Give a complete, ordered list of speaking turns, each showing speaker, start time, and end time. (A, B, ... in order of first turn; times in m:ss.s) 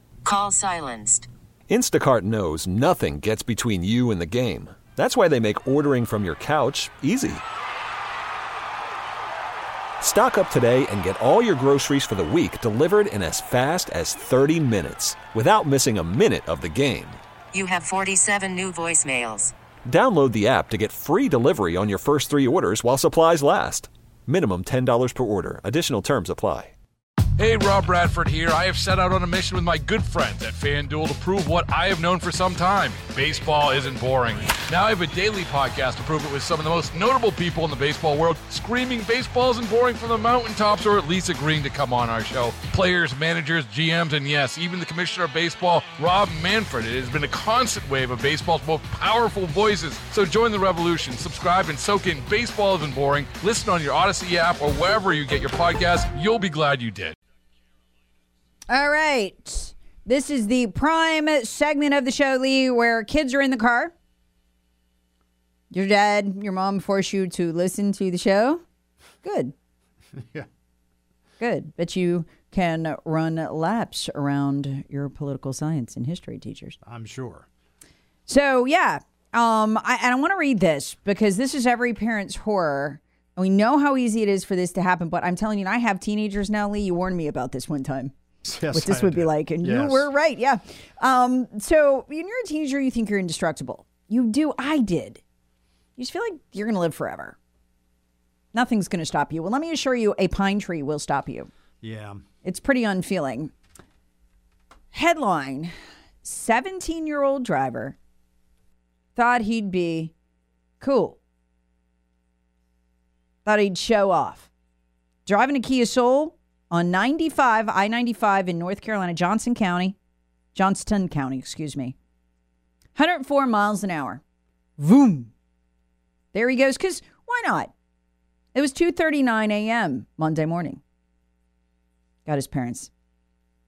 0:00.2-0:01.3 A
0:01.7-0:07.4 B
0:10.0-0:17.2 B
0:17.5-0:19.5 A
0:19.8-0:26.7 B
0:27.4-0:57.2 C
0:58.7-1:03.9 D
1:05.7-1:08.6 D
1:09.2-1:09.5 D
1:10.2-1:10.5 E
1:11.4-1:16.8 D
1:16.8-1:17.4 E
1:18.3-1:28.1 D
1:28.4-1:30.1 E
1:28.7-1:35.2 D
1:36.0-1:37.4 D
1:38.5-1:41.5 D
1:41.8-1:42.2 E
1:42.4-1:43.5 D
1:44.9-1:48.0 D
1:49.1-1:50.1 D
1:50.8-1:51.2 D
1:53.4-1:54.5 D
1:55.2-2:00.0 D
2:00.5-2:01.9 D
2:03.0-2:04.2 D
2:04.8-2:05.3 D
2:06.3-2:07.7 D
2:08.5-2:10.8 D
2:12.2-2:12.9 D